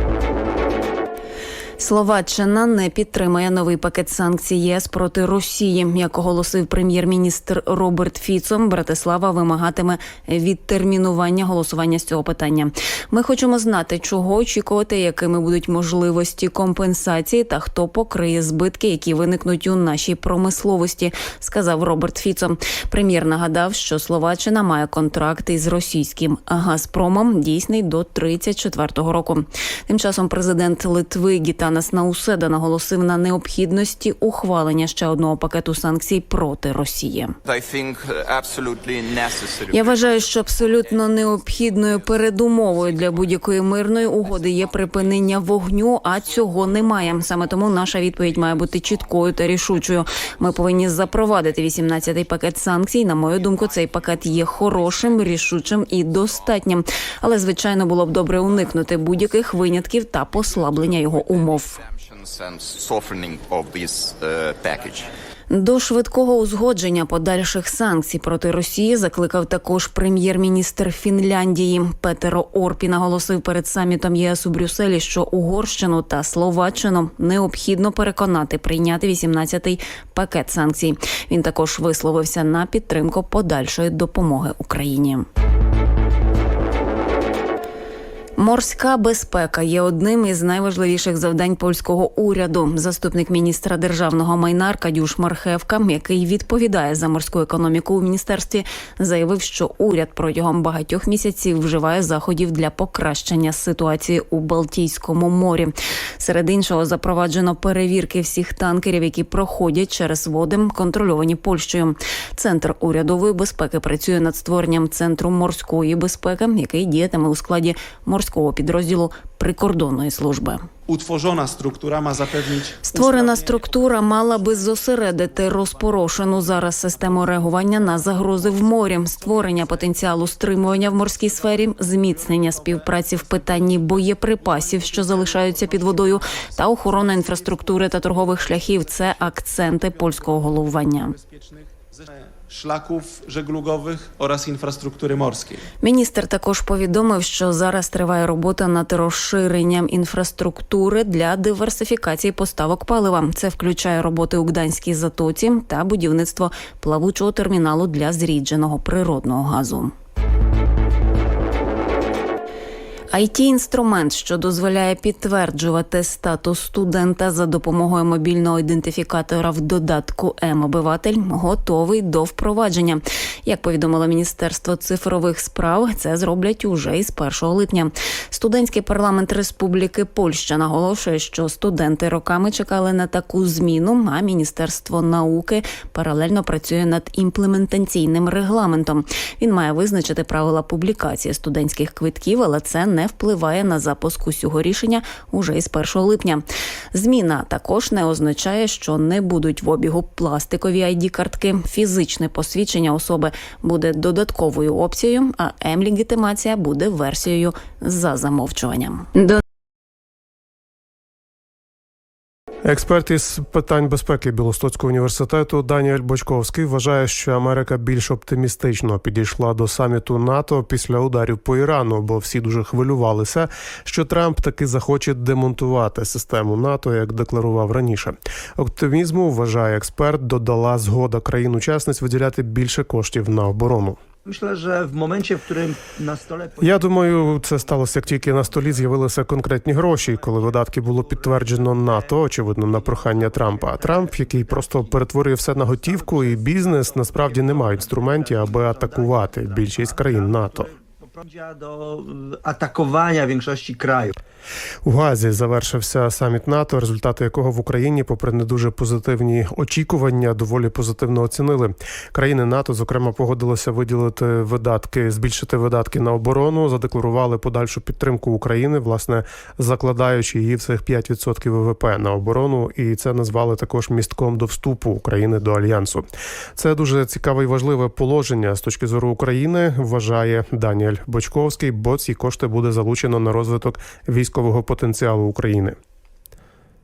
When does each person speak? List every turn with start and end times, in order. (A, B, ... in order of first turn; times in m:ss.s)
0:01.8-0:37.4 A
0:37.4-0:43.5 B
0:39.7-1:01.8 A
0:44.0-0:45.4 B
0:46.1-0:52.5 B
0:53.2-0:56.5 B
0:58.5-1:05.1 B
1:05.5-1:25.3 A
1:28.4-2:00.6 A
2:00.9-2:25.6 C
2:02.8-2:21.1 A
2:25.8-2:39.9 A
2:43.1-3:29.4 A
3:32.6-3:54.0 D
3:54.2-3:58.9 E
3:56.6-4:10.7 D
3:59.7-4:05.0 E
4:05.7-4:14.1 E
4:14.8-4:45.8 D